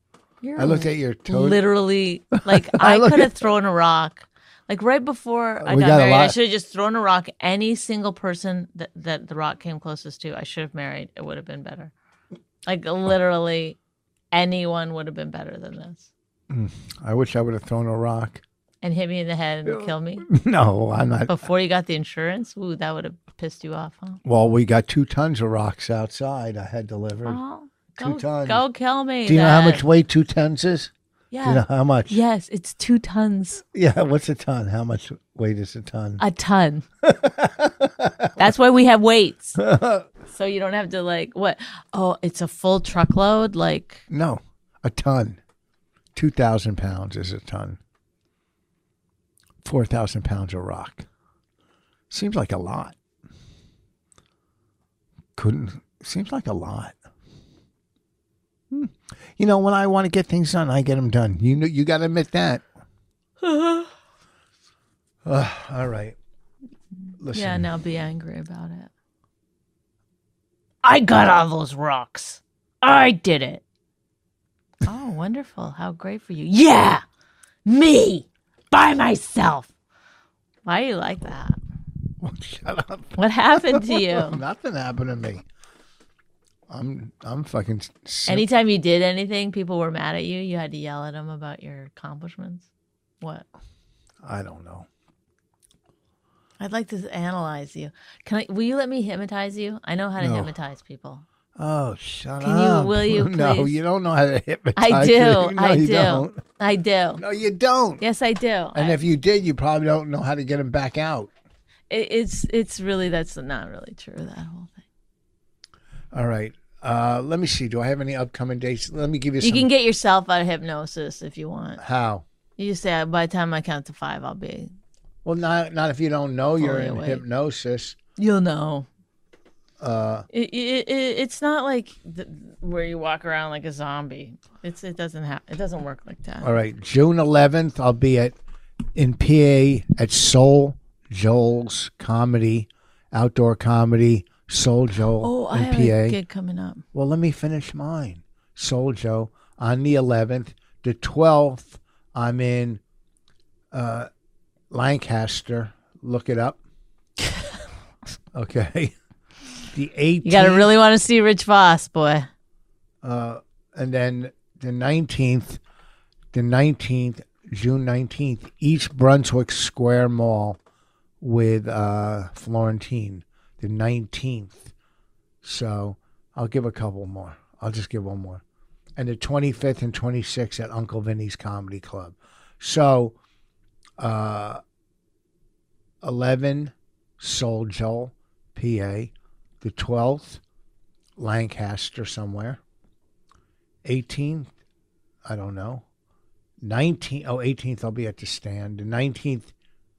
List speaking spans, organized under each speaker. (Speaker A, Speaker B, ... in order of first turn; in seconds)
Speaker A: 0.4-11.9, 12.7-13.8, 14.3-16.1, 18.8-20.3, 21.3-24.2, 27.3-29.9, 31.3-33.6, 36.2-36.9, 38.4-39.6, 40.3-44.0, 63.4-63.9, 67.3-68.9, 70.8-73.6, 74.8-77.0, 77.7-79.7, 80.7-81.6, 83.2-84.4, 88.3-92.7, 93.2-93.5, 96.6-101.2, 102.4-103.8, 104.8-107.2, 108.0-109.0, 111.9-114.8, 119.4-121.8, 122.6-124.7, 126.6-127.2, 128.2-128.9, 130.3-136.6, 145.2-146.8, 160.2-162.3
Speaker B: 0.6-1.6, 2.5-3.5, 5.6-6.4, 16.5-18.4, 19.7-21.4, 24.2-27.4, 27.9-28.6, 29.2-30.9, 31.4-32.2, 33.7-36.2, 37.0-38.5, 39.6-40.1, 44.1-45.4, 46.1-47.8, 49.6-51.1, 52.1-53.0, 55.4-57.0, 58.7-62.6, 65.2-66.2, 67.2-67.7, 82.2-85.4, 86.7-88.5, 94.2-94.9, 100.2-100.5, 101.6-106.4, 107.2-108.0, 108.8-111.3, 116.1-119.7, 121.8-122.2, 125.2-128.0, 129.8-130.3, 136.4-138.4, 138.9-146.2, 146.9-152.8, 153.7-154.1, 154.7-156.6, 158.3-158.9, 159.7-160.7, 163.0-165.6, 166.3-170.6, 171.2-174.7, 175.4-178.4, 179.0-183.2, 184.0-184.6, 186.0-190.4, 191.2-192.6, 193.8-194.5, 195.2-195.8, 196.6-199.5